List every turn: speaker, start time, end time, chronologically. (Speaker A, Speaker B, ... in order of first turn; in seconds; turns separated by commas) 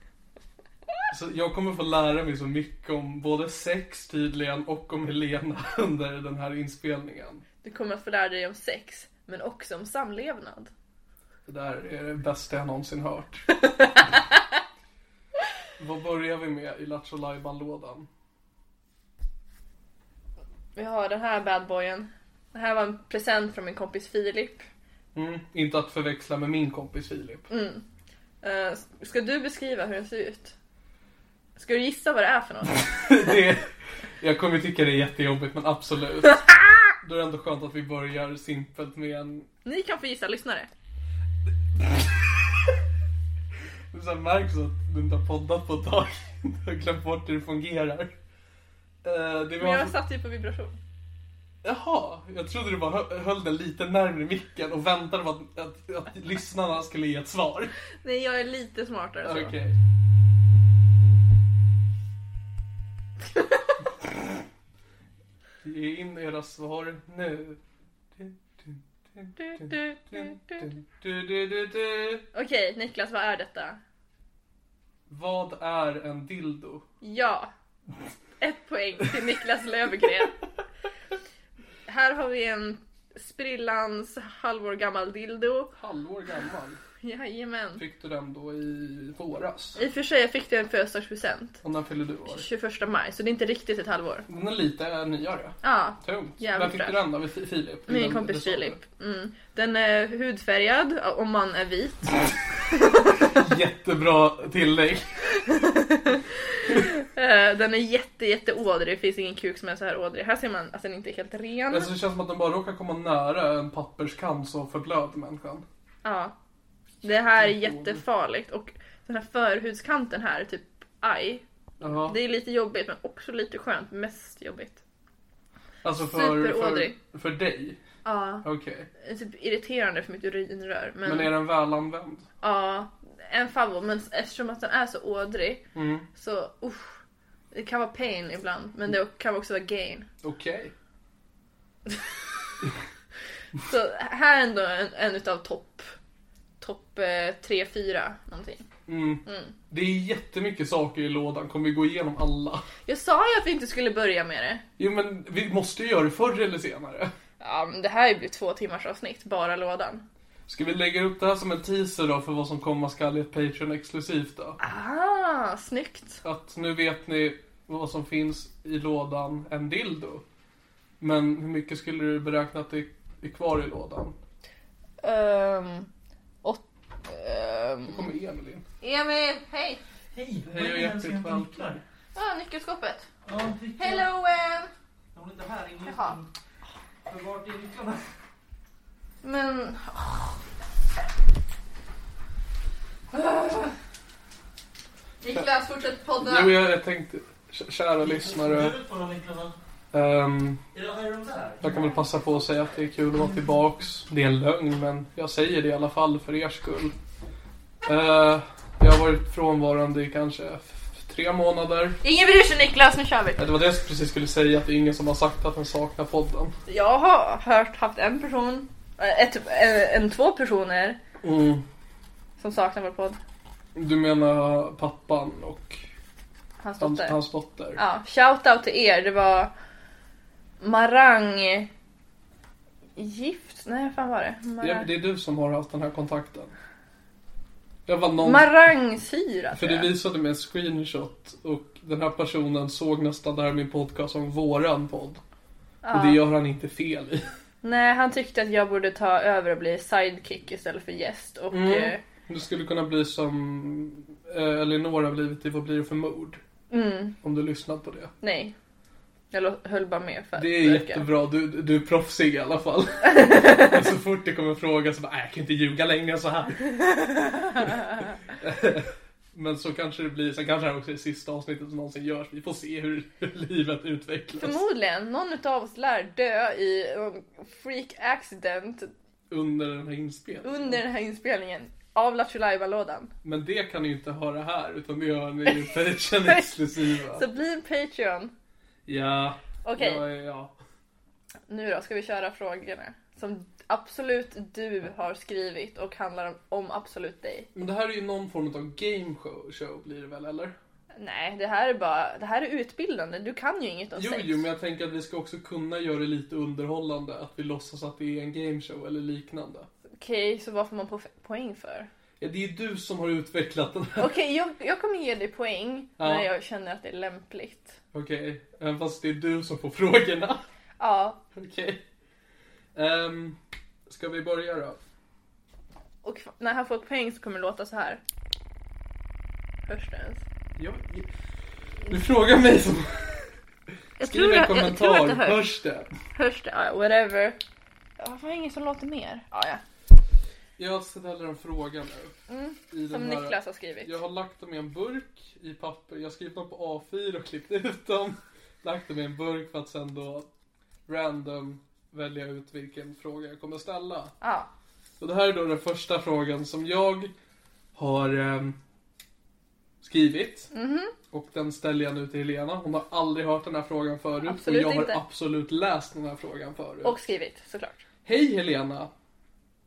Speaker A: 1.1-7.4, Speaker B: 7.6-10.7, Speaker A: 11.5-13.5, Speaker B: 13.7-14.2, Speaker A: 15.8-18.1, Speaker B: 20.8-24.6, Speaker A: 25.1-27.5, Speaker B: 27.5-27.8, Speaker B: 28.4-30.6, Speaker B: 31.6-32.9, Speaker A: 32.7-33.7, Speaker A: 34.2-36.5, Speaker A: 37.0-39.5, Speaker B: 39.6-40.7, Speaker A: 41.8-42.3, Speaker A: 43.9-48.1, Speaker A: 49.0-49.9, Speaker B: 49.6-50.8, Speaker A: 51.6-57.7, Speaker B: 58.0-59.5, Speaker A: 59.2-59.8, Speaker A: 65.6-67.6, Speaker A: 68.2-72.3, Speaker B: 69.4-70.7, Speaker B: 72.3-73.8, Speaker A: 75.1-76.9, Speaker B: 77.0-77.5, Speaker B: 78.4-80.3, Speaker B: 81.9-85.7, Speaker A: 85.8-86.8, Speaker B: 87.0-87.8, Speaker A: 87.8-89.8, Speaker B: 89.8-91.6, Speaker A: 91.6-92.5, Speaker B: 92.3-94.3, Speaker A: 94.3-98.8, Speaker B: 95.6-97.0, Speaker B: 97.9-102.1, Speaker B: 102.7-103.4, Speaker A: 103.4-105.1, Speaker B: 105.5-106.2, Speaker B: 106.7-111.9, Speaker A: 111.7-115.7, Speaker B: 116.0-116.3, Speaker B: 117.0-121.4, Speaker A: 117.4-118.0, Speaker A: 121.8-122.2, Speaker B: 122.0-124.8, Speaker A: 125.8-127.8, Speaker B: 126.0-127.0, Speaker B: 128.1-128.5, Speaker A: 128.4-128.9, Speaker B: 129.0-131.3, Speaker A: 131.1-132.3, Speaker B: 132.4-135.6, Speaker A: 135.8-136.1, Speaker B: 136.2-140.1, Speaker A: 140.2-140.7, Speaker B: 143.7-145.9, Speaker B: 146.6-148.7, Speaker A: 148.9-152.7, Speaker B: 149.3-149.6, Speaker B: 152.9-154.6, Speaker A: 154.8-157.1, Speaker B: 157.4-160.0, Speaker A: 160.5-164.6, Speaker B: 164.6-166.2, Speaker A: 166.2-170.2, Speaker A: 171.0-174.2, Speaker B: 175.0-175.9, Speaker B: 176.4-178.0, Speaker A: 177.9-178.7, Speaker B: 178.8-179.8, Speaker C: 180.2-181.8, Speaker A: 180.5-181.8, Speaker B: 182.2-183.1, Speaker C: 183.3-184.1, Speaker B: 183.8-184.7, Speaker C: 185.1-186.3, Speaker B: 185.8-186.2, Speaker C: 187.1-188.0, Speaker B: 189.2-190.4, Speaker B: 193.1-193.7, Speaker B: 195.2-196.6, Speaker A: 196.2-198.8, Speaker C: 198.0-199.6, Speaker A: 199.9-200.6, Speaker C: 200.7-201.7, Speaker A: 201.6-206.9, Speaker A: 207.8-212.0, Speaker B: 212.0-213.4, Speaker A: 213.4-216.5, Speaker B: 216.7-221.0, Speaker A: 221.2-221.7, Speaker B: 222.4-223.2, Speaker A: 223.8-225.8, Speaker B: 226.6-227.2, Speaker A: 226.8-227.8, Speaker B: 227.8-229.5, Speaker B: 230.6-231.7, Speaker B: 233.0-234.9, Speaker A: 234.6-236.5, Speaker A: 237.9-238.6, Speaker B: 238.2-239.9, Speaker A: 239.6-245.2, Speaker B: 245.8-246.2, Speaker A: 245.9-247.3, Speaker B: 247.6-252.0, Speaker A: 251.5-256.4, Speaker B: 256.7-257.2, Speaker A: 257.2-258.1, Speaker B: 258.2-258.5, Speaker B: 259.3-261.1, Speaker A: 260.4-266.7, Speaker B: 263.1-263.8, Speaker B: 266.7-268.0, Speaker A: 268.4-274.6, Speaker B: 274.4-278.9, Speaker A: 279.3-280.8, Speaker B: 280.4-283.1, Speaker A: 283.2-287.2, Speaker B: 285.5-286.4, Speaker B: 287.1-288.3, Speaker A: 288.9-290.5, Speaker B: 289.6-290.0, Speaker B: 291.5-297.5, Speaker A: 297.6-300.5, Speaker B: 301.0-304.5, Speaker A: 304.0-309.7, Speaker B: 310.0-311.9, Speaker A: 312.2-314.1, Speaker B: 314.0-317.8, Speaker A: 316.0-316.3, Speaker A: 317.9-320.4, Speaker B: 320.8-321.2, Speaker A: 321.4-321.8, Speaker A: 322.8-324.8, Speaker B: 326.0-328.0, Speaker B: 329.7-330.2, Speaker A: 330.6-331.1, Speaker A: 331.9-333.3, Speaker B: 334.0-335.5, Speaker A: 334.0-335.9, Speaker B: 336.1-337.4, Speaker B: 338.0-339.6, Speaker A: 340.6-342.2, Speaker B: 342.3-344.0, Speaker A: 342.7-350.3, Speaker A: 350.9-354.1, Speaker B: 354.2-354.5, Speaker A: 355.0-357.1, Speaker A: 357.8-358.6, Speaker A: 359.8-360.5, Speaker B: 360.5-360.9, Speaker A: 361.1-367.0, Speaker B: 364.2-365.0, Speaker B: 366.8-367.9, Speaker A: 368.1-368.9